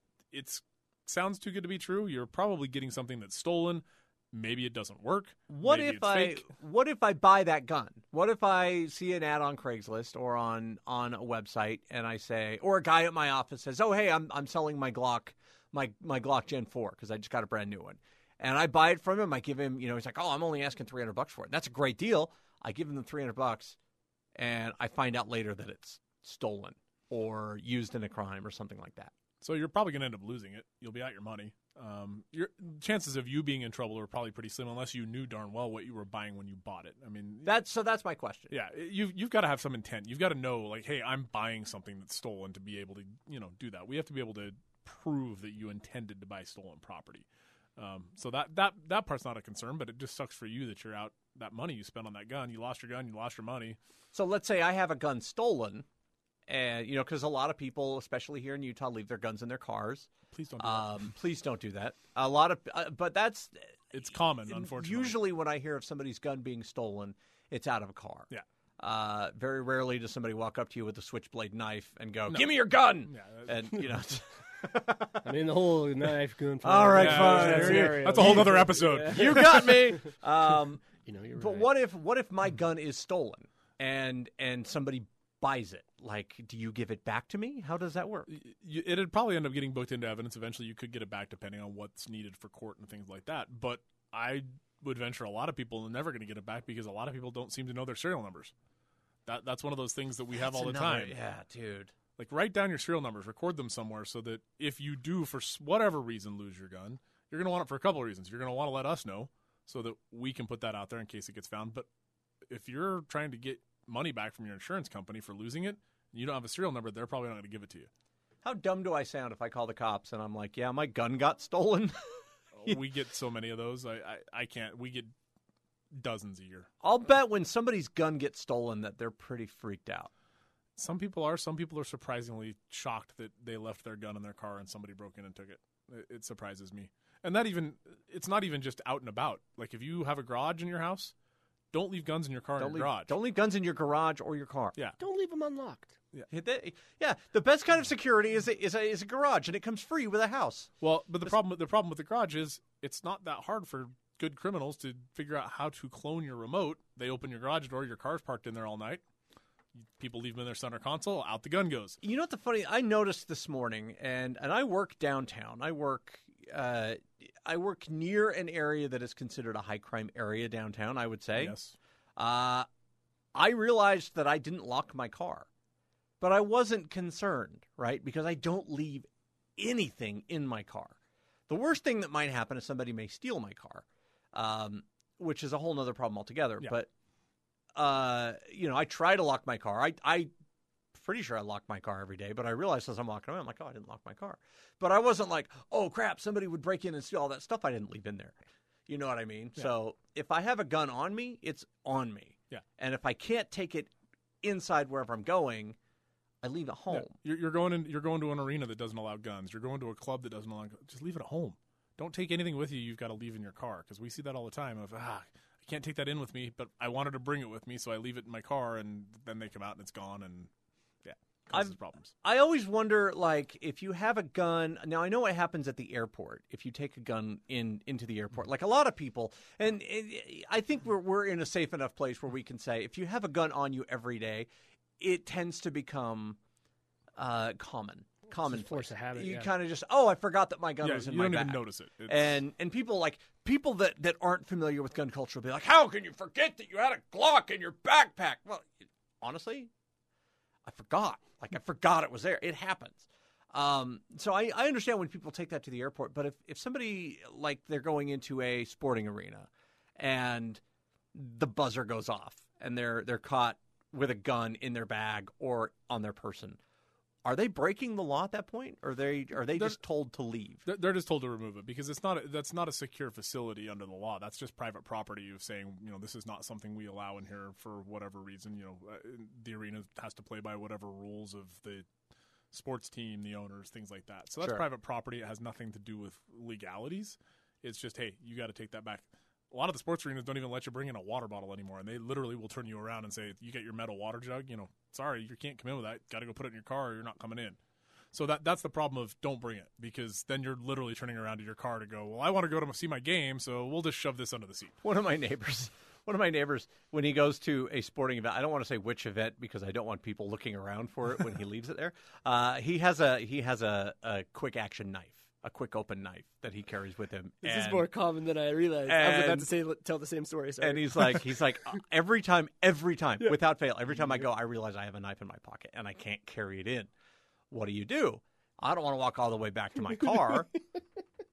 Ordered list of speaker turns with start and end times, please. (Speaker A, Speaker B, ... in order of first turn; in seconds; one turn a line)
Speaker A: 0.3-6.5
Speaker B: 5.5-23.8
Speaker B: 24.3-29.1
Speaker A: 29.4-37.5
Speaker B: 37.4-38.5
Speaker A: 38.5-47.2
Speaker A: 47.8-53.8
Speaker B: 54.1-55.9
Speaker B: 56.5-63.7
Speaker A: 60.3-61.1
Speaker A: 63.9-65.2
Speaker B: 64.5-75.2
Speaker A: 72.3-73.7
Speaker C: 75.2-80.0
Speaker B: 76.6-88.3
Speaker A: 76.9-79.8
Speaker C: 81.0-81.7
Speaker A: 88.3-98.5
Speaker A: 99.2-101.2
Speaker B: 100.4-101.9
Speaker A: 102.2-111.8
Speaker A: 112.5-117.9
Speaker B: 118.4-122.0
Speaker A: 122.6-125.1
Speaker A: 125.9-126.7
Speaker B: 126.8-130.1
Speaker A: 130.8-141.1
Speaker A: 141.7-143.1
Speaker B: 142.6-144.8
Speaker C: 145.0-145.9
Speaker B: 146.3-150.7
Speaker A: 150.8-159.0
Speaker A: 159.8-162.0
Speaker B: 162.0-171.5
Speaker A: 171.3-171.7
Speaker B: 172.2-172.7
Speaker B: 173.3-175.5
Speaker B: 176.2-180.9
Speaker B: 181.5-186.9
Speaker B: 187.7-190.3
Speaker B: 190.9-205.8
Speaker B: 206.4-207.1
Speaker A: 206.9-220.5
Speaker A: 221.0-222.1
Speaker B: 221.5-234.5
Speaker B: 235.0-236.4
Speaker B: 237.2-249.7
Speaker C: 238.4-239.5
Speaker A: 240.8-242.3
Speaker B: 250.6-260.6
Speaker B: 261.1-266.6
Speaker B: 267.2-270.6
Speaker A: 270.6-281.9
Speaker A: 282.5-297.6
Speaker A: 298.1-304.7
Speaker B: 304.8-317.9
Speaker C: 317.4-321.8
Speaker B: 318.9-319.5
Speaker B: 320.6-326.9
Speaker B: 327.5-330.5